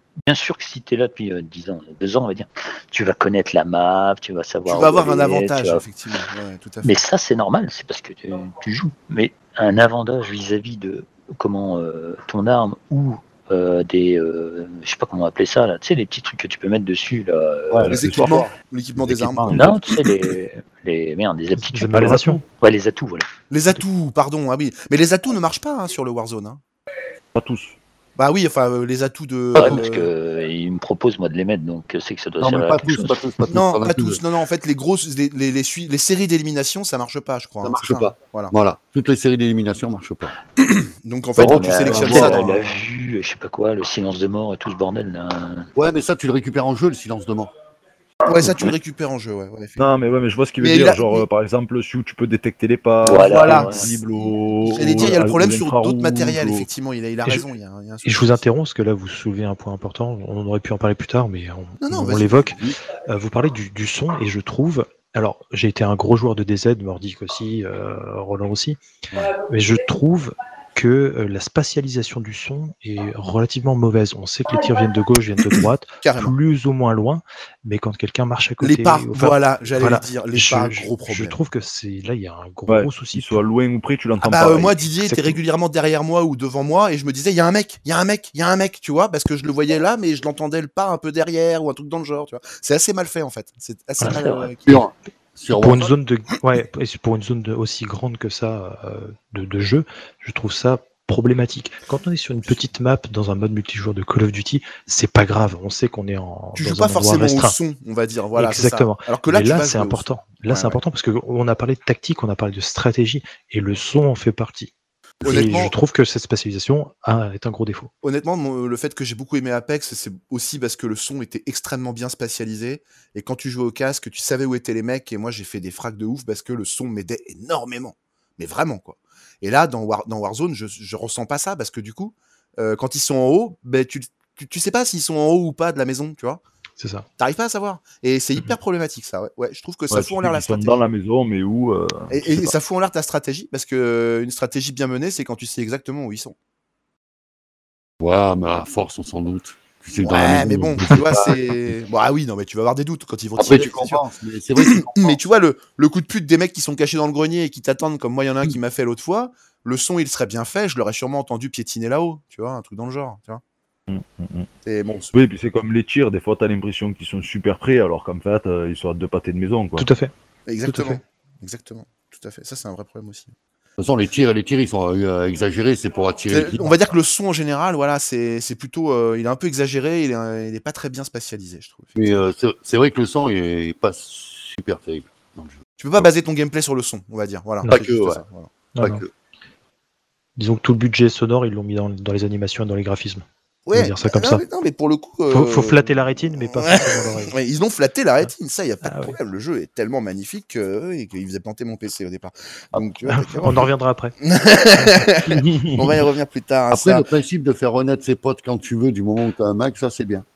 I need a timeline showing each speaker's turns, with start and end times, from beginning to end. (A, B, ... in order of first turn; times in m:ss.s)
0:00.2-0:05.8 A
0:04.7-0:07.0 B
0:06.8-0:17.9 A
0:17.7-0:20.0 C
0:17.8-0:18.4 D
0:17.9-0:19.8 B
0:19.5-0:23.3 A
0:21.6-0:22.4 E
0:21.9-0:22.4 D
0:23.5-0:26.6 B
0:27.4-0:27.8 D
0:28.2-0:30.1 B
0:29.6-0:33.2 A
0:29.6-0:29.8 C
0:32.4-0:34.2 C
0:33.5-0:38.5 B
0:37.6-0:40.4 C
0:40.6-0:42.7 B
0:41.4-0:42.6 C
0:41.4-0:45.7 A
0:45.8-0:47.5 C
0:48.2-0:49.9 B
0:49.8-0:56.7 D
0:50.6-0:51.3 B
0:53.0-0:53.9 A
0:53.1-0:54.0 B
0:54.6-0:58.4 B
0:58.0-1:02.6 E
1:01.8-1:02.5 B
1:02.5-1:02.8 C
1:03.1-1:08.8 E
1:09.3-1:23.4 E
1:16.0-1:16.3 B
1:18.6-1:21.4 B
1:22.7-1:24.8 D
1:24.2-1:34.8 B
1:25.0-1:25.4 E
1:34.7-1:36.0 C
1:35.5-1:47.6 E
1:46.6-1:50.8 B
1:48.4-1:54.7 E
1:55.2-1:55.7 B
1:55.2-1:57.9 E
1:58.0-2:16.4 B
2:16.8-2:17.1 E
2:17.2-2:20.8 B
2:19.9-2:22.5 D
2:22.1-2:26.4 B
2:28.0-2:31.5 C
2:30.0-2:34.0 B
2:33.4-2:35.2 C
2:34.6-2:43.4 B
2:43.9-2:44.5 D
2:44.6-2:45.1 B
2:45.1-2:49.9 D
2:49.8-2:50.1 E
2:50.5-2:53.3 B
2:50.7-2:51.0 E
2:53.8-2:56.9 C
2:56.3-3:02.2 B
3:02.0-3:06.1 C
3:05.8-3:08.5 B
3:07.7-3:08.2 C
3:08.8-3:09.0 E
3:08.8-3:09.1 C
3:10.4-3:14.4 E
3:13.7-3:23.7 B
3:15.3-3:17.4 E
3:18.8-3:19.2 E
3:23.1-3:24.2 E
3:24.2-3:27.0 B
3:25.4-3:25.9 D
3:26.7-3:30.2 C